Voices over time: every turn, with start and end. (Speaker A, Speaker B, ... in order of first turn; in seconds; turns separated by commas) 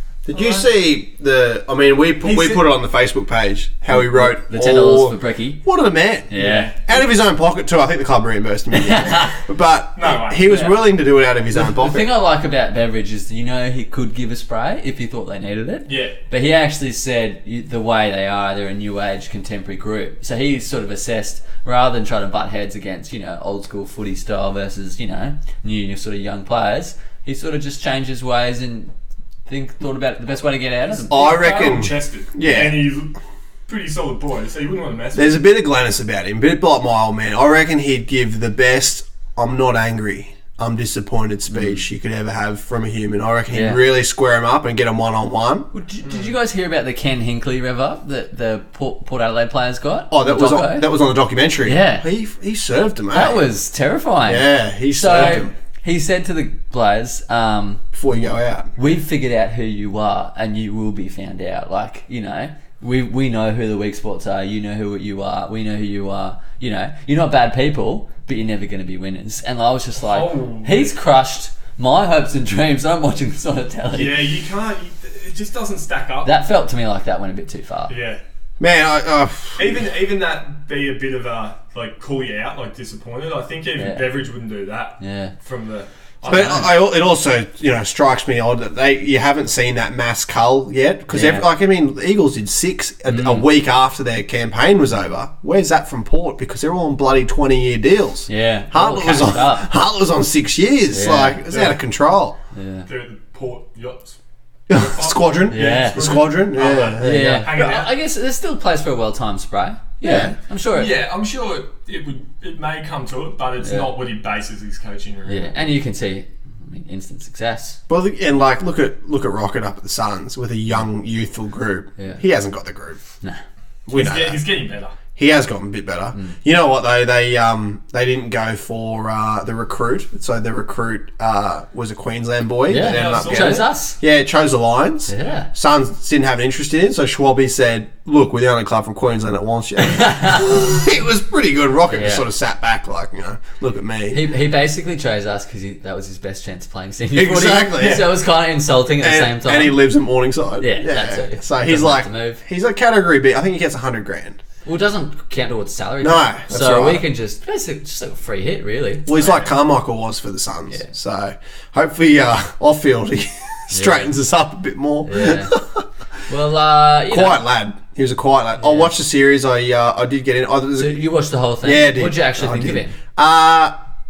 Speaker A: 0.3-6.3, Speaker B: 0.3-0.7, Speaker B: 2.2-2.6, Speaker C: 3.9-5.6, Speaker C: 6.3-6.7, Speaker B: 6.3-7.0, Speaker A: 6.9-12.1, Speaker C: 8.7-9.4, Speaker B: 10.0-10.5, Speaker C: 10.5-10.8, Speaker C: 11.5-28.9, Speaker B: 15.9-16.2, Speaker C: 29.5-31.2, Speaker B: 30.9-33.1, Speaker A: 31.1-32.9, Speaker B: 33.7-35.4, Speaker A: 35.1-45.7, Speaker C: 41.5-41.8, Speaker C: 43.5-43.8, Speaker C: 45.7-50.9, Speaker A: 50.1-53.4, Speaker C: 51.6-52.0, Speaker C: 53.1-57.9, Speaker A: 54.3-55.5, Speaker A: 58.0-58.7, Speaker C: 58.8-74.2, Speaker B: 70.0-70.9, Speaker B: 73.9-76.3, Speaker C: 76.2-77.9, Speaker B: 77.9-78.2, Speaker A: 78.6-79.7, Speaker B: 79.6-86.7, Speaker C: 83.8-84.1, Speaker C: 85.0-85.3, Speaker C: 86.3-86.7, Speaker A: 86.3-102.3, Speaker C: 91.1-91.5, Speaker C: 93.1-93.5, Speaker C: 98.3-99.7, Speaker C: 100.9-101.4, Speaker B: 101.5-101.8, Speaker C: 102.5-102.9, Speaker B: 102.9-104.2, Speaker A: 104.7-107.5, Speaker B: 104.7-107.9, Speaker C: 105.5-106.1, Speaker C: 107.0-111.0, Speaker A: 110.0-110.3, Speaker B: 110.7-115.6, Speaker C: 113.6-113.9, Speaker C: 115.3-117.8, Speaker A: 117.9-123.0, Speaker A: 123.9-124.4, Speaker B: 123.9-125.0, Speaker A: 125.2-144.2, Speaker C: 132.7-134.0, Speaker B: 132.8-133.7, Speaker C: 135.1-135.5, Speaker C: 139.8-140.7, Speaker C: 141.9-142.2, Speaker C: 144.1-149.8, Speaker A: 147.2-148.1, Speaker B: 147.8-148.1, Speaker A: 149.0-154.4, Speaker C: 150.6-152.4, Speaker C: 154.7-159.4, Speaker A: 156.0-157.0, Speaker A: 159.1-165.8, Speaker C: 163.7-164.1, Speaker C: 165.1-165.6, Speaker C: 166.3-167.4, Speaker A: 167.1-171.0, Speaker C: 168.6-168.9, Speaker C: 170.8-173.0, Speaker A: 171.6-173.7